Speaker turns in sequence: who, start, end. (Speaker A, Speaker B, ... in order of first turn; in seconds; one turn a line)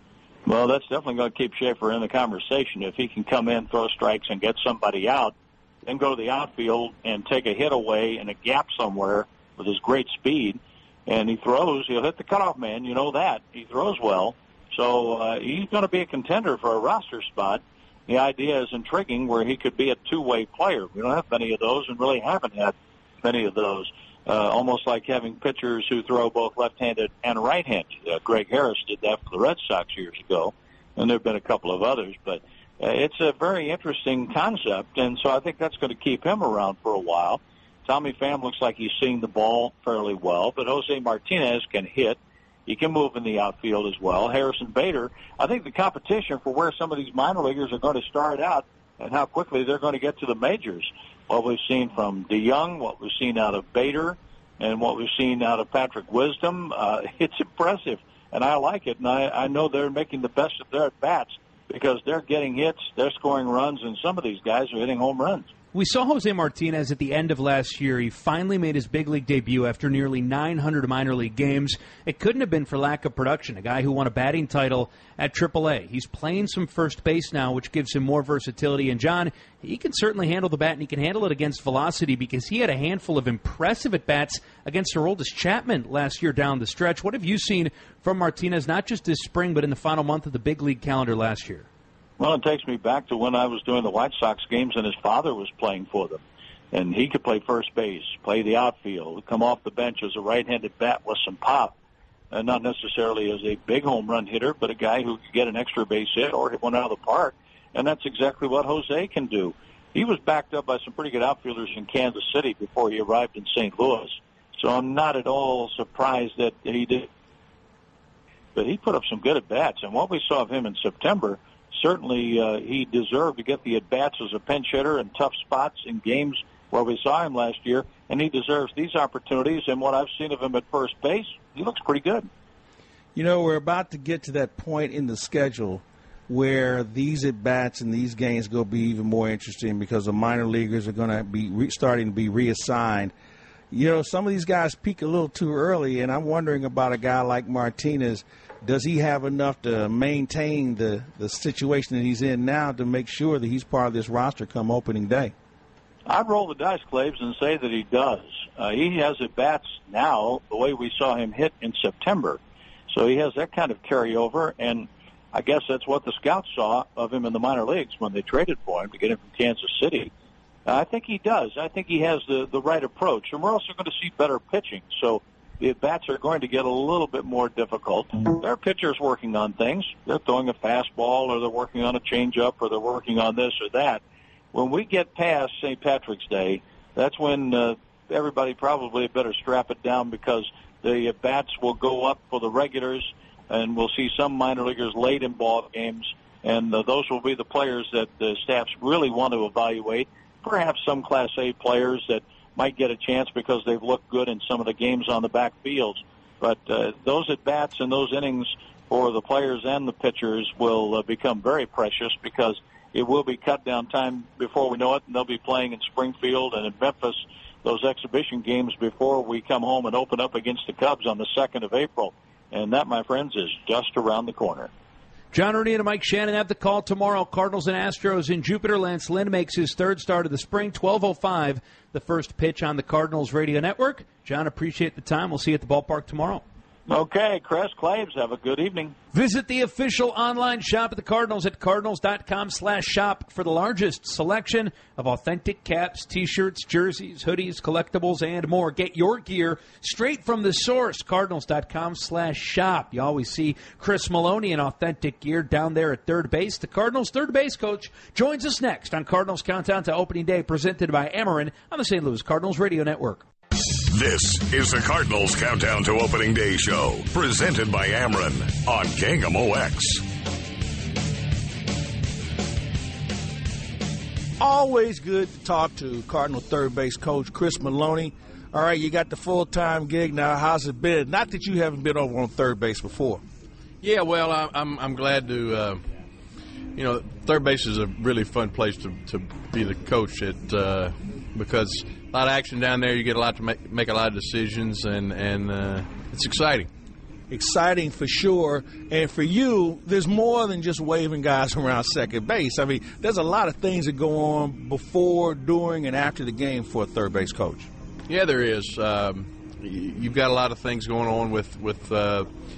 Speaker A: 0.5-65.5
Speaker B: 65.7-91.7
Speaker A: 92.2-101.7
Speaker A: 102.3-117.1
Speaker A: 118.5-132.3
Speaker C: 133.1-143.1
Speaker C: 143.7-155.3
Speaker A: 156.1-170.1
Speaker A: 170.7-184.0
Speaker A: 184.5-224.7
Speaker B: 225.3-236.4
Speaker A: 236.9-238.9
Speaker B: 239.1-263.2
Speaker D: 263.8-270.0
Speaker C: 274.4-283.2
Speaker E: 283.8-285.8
Speaker E: 286.7-296.7
Speaker C: 297.3-307.7
Speaker E: 308.1-312.3